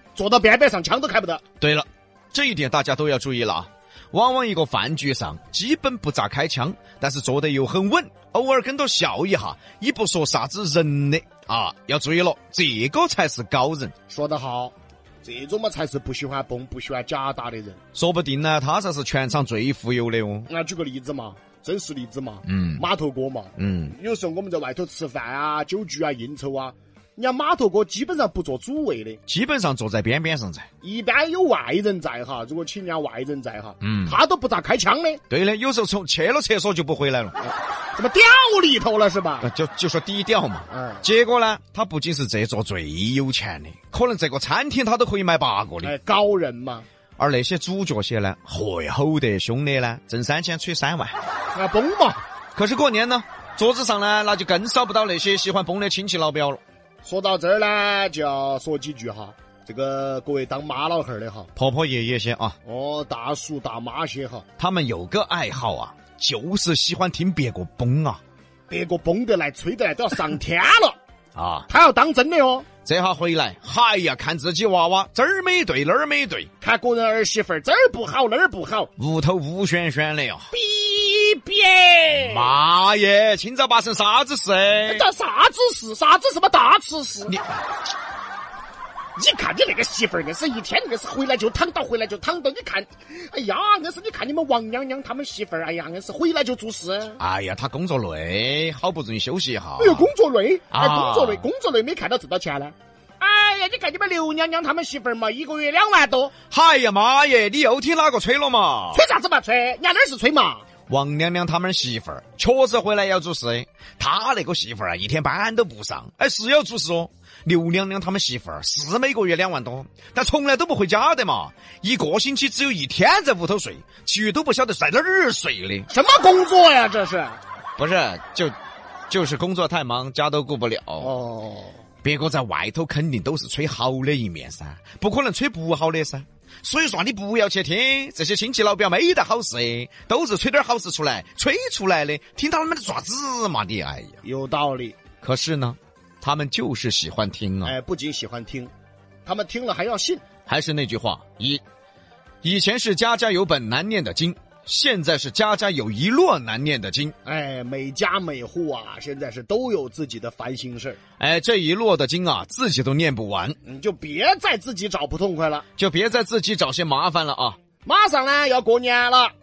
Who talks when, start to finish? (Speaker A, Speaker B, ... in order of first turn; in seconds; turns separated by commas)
Speaker A: 0.1-1.4, Speaker B: 1.6-13.9, Speaker A: 14.1-17.8, Speaker B: 17.9-20.5, Speaker A: 20.5-29.2, Speaker B: 22.5-22.8, Speaker B: 23.6-23.9, Speaker B: 29.3-30.7, Speaker A: 30.8-35.2, Speaker B: 33.8-34.2, Speaker B: 35.3-37.4, Speaker A: 37.4-39.5, Speaker B: 39.4-45.9, Speaker A: 40.7-41.0, Speaker A: 45.8-46.9, Speaker B: 47.2-51.1, Speaker A: 51.5-52.2, Speaker B: 52.5-56.6, Speaker A: 57.0-61.5, Speaker B: 61.6-62.6, Speaker A: 62.6-64.5, Speaker B: 64.6-68.2, Speaker A: 68.7-71.0, Speaker B: 71.3-71.7, Speaker A: 71.7-72.7, Speaker B: 72.8-76.5, Speaker A: 76.6-78.9, Speaker B: 79.0-80.5, Speaker A: 80.5-82.5, Speaker B: 82.2-85.0, Speaker A: 84.8-87.3, Speaker A: 89.2-97.2, Speaker B: 97.2-100.1, Speaker A: 99.8-106.3, Speaker B: 100.7-101.5, Speaker B: 106.5-109.0, Speaker A: 108.9-110.7, Speaker B: 110.9-125.9, Speaker A: 125.9-127.4, Speaker B: 127.8-128.6, Speaker B: 129.1-131.1, Speaker A: 131.0-131.8, Speaker B: 132.0-144.2, Speaker A: 144.2-145.0, Speaker B: 145.2-147.8, Speaker A: 147.6-148.7, Speaker A: 149.2-150.2, Speaker B: 150.5-151.6, Speaker B: 152.4-157.2, Speaker A: 157.2-161.0, Speaker B: 161.2-163.6, Speaker A: 163.7-165.7, Speaker B: 165.8-167.6, Speaker A: 167.8-169.3